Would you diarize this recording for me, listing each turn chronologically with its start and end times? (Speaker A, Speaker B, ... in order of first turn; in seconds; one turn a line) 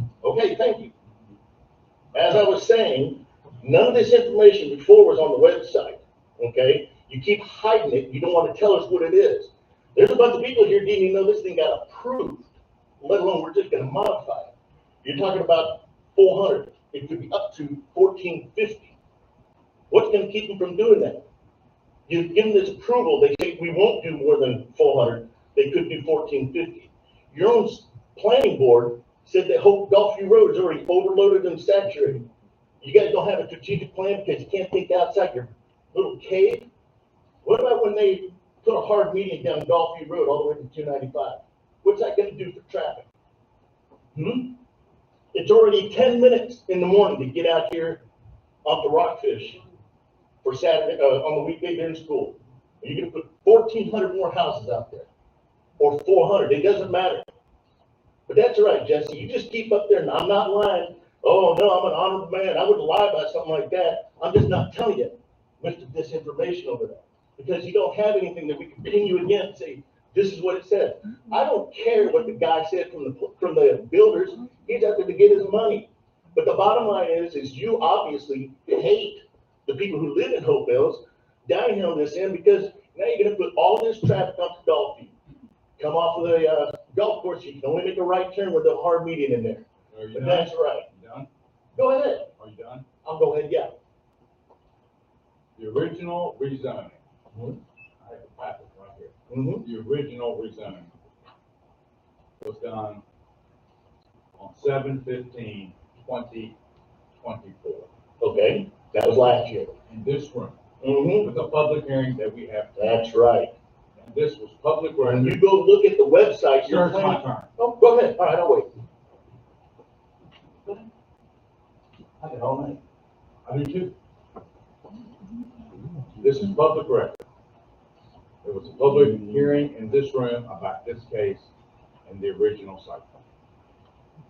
Speaker A: 0.2-0.9
Speaker A: 2.1-19.0
Speaker A: 19.9-21.2
Speaker A: 22.1-32.3
Speaker A: 32.8-36.7
Speaker A: 37.4-43.1
Speaker A: 44.1-44.6
Speaker A: 45.3-48.0
Speaker A: 48.6-49.6
Speaker A: 50.4-55.1
Speaker A: 55.8-57.3
Speaker A: 58.3-85.1
Speaker A: 85.8-90.9
Speaker B: 89.9-91.3
Speaker A: 91.8-92.3
Speaker B: 92.4-92.9
Speaker A: 93.0-93.7
Speaker B: 95.6-97.0
Speaker A: 97.3-97.6
Speaker B: 98.0-100.9
Speaker A: 99.3-99.7
Speaker B: 102.4-103.0
Speaker B: 104.4-106.6
Speaker B: 107.2-107.9
Speaker A: 108.2-109.7
Speaker B: 109.9-110.6
Speaker A: 110.8-111.3
Speaker B: 111.2-112.8
Speaker A: 112.8-113.5
Speaker B: 114.0-115.4
Speaker A: 115.0-118.7
Speaker B: 116.6-117.5
Speaker A: 122.2-122.8
Speaker B: 123.5-123.9
Speaker B: 126.2-127.2
Speaker B: 128.4-131.5
Speaker B: 132.1-133.1